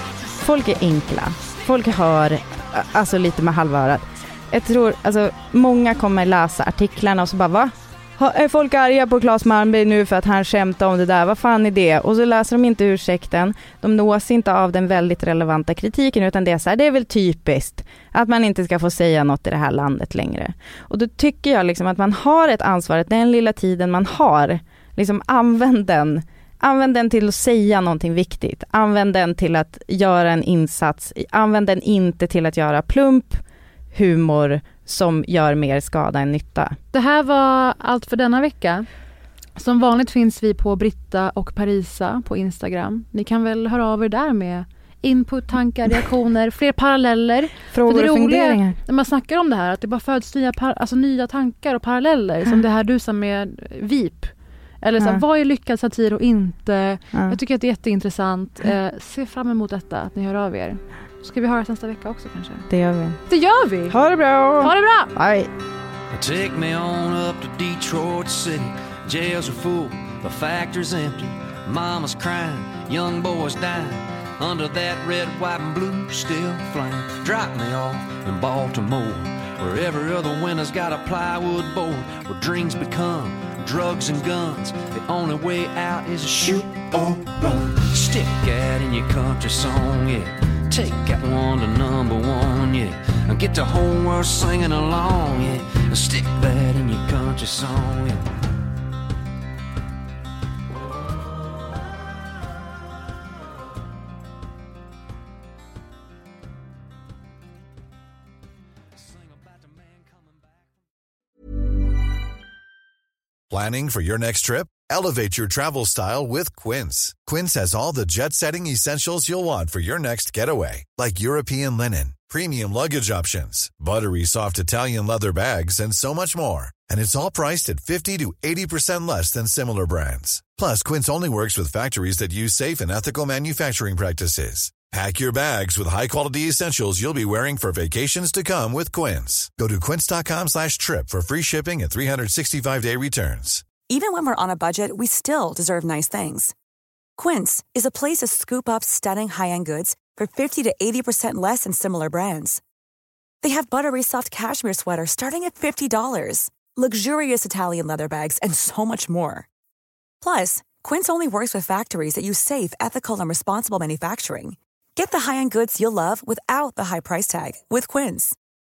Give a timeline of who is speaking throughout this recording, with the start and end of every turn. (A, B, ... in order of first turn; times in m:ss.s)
0:00.4-0:36.8 A
0:36.9-0:38.9 B
0:39.6-1:02.6 B
0:47.7-0:48.8 A
0:57.1-0:57.4 A
1:02.7-1:03.2 A
1:03.3-1:04.0 B
1:03.9-1:05.5 A
1:04.6-1:05.1 B
1:06.1-1:38.3 C
1:53.5-2:23.7 D
2:23.9-2:26.5 E
2:27.2-2:32.6 E
2:33.4-2:39.4 E
2:40.2-2:48.4 E